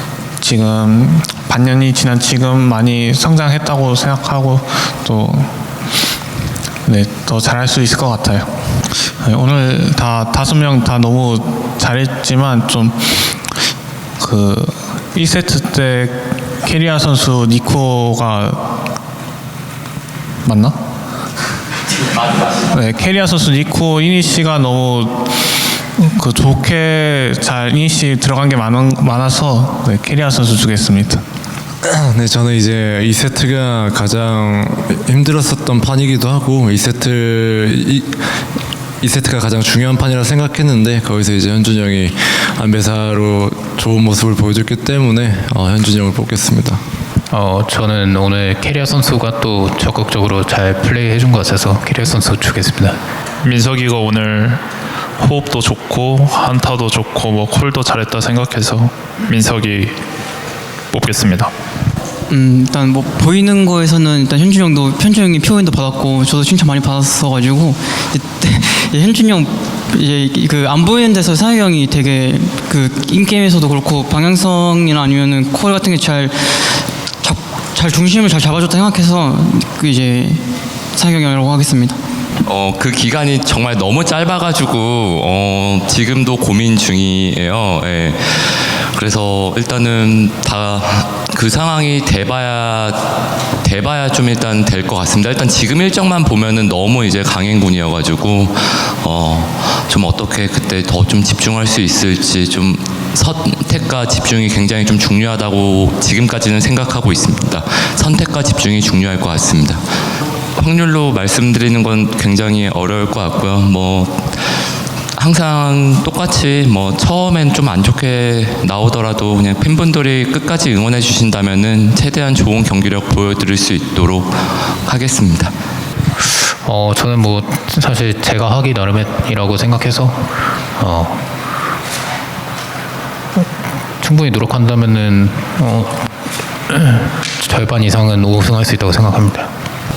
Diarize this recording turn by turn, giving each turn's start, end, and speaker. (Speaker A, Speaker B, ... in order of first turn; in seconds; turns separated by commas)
Speaker A: 0.4-5.5, Speaker A: 6.9-8.5, Speaker A: 9.1-13.2, Speaker A: 14.2-18.7, Speaker A: 20.4-20.8, Speaker A: 22.7-25.3, Speaker A: 26.0-31.2, Speaker B: 31.8-38.2, Speaker B: 39.0-46.8, Speaker C: 47.3-53.0, Speaker D: 53.4-54.6, Speaker D: 55.2-60.0, Speaker D: 60.9-61.5, Speaker E: 62.3-80.4, Speaker E: 81.0-82.0, Speaker F: 82.4-109.8, Speaker F: 110.6-114.4, Speaker F: 115.2-125.5, Speaker C: 126.6-131.2, Speaker C: 134.0-136.1, Speaker C: 136.7-139.5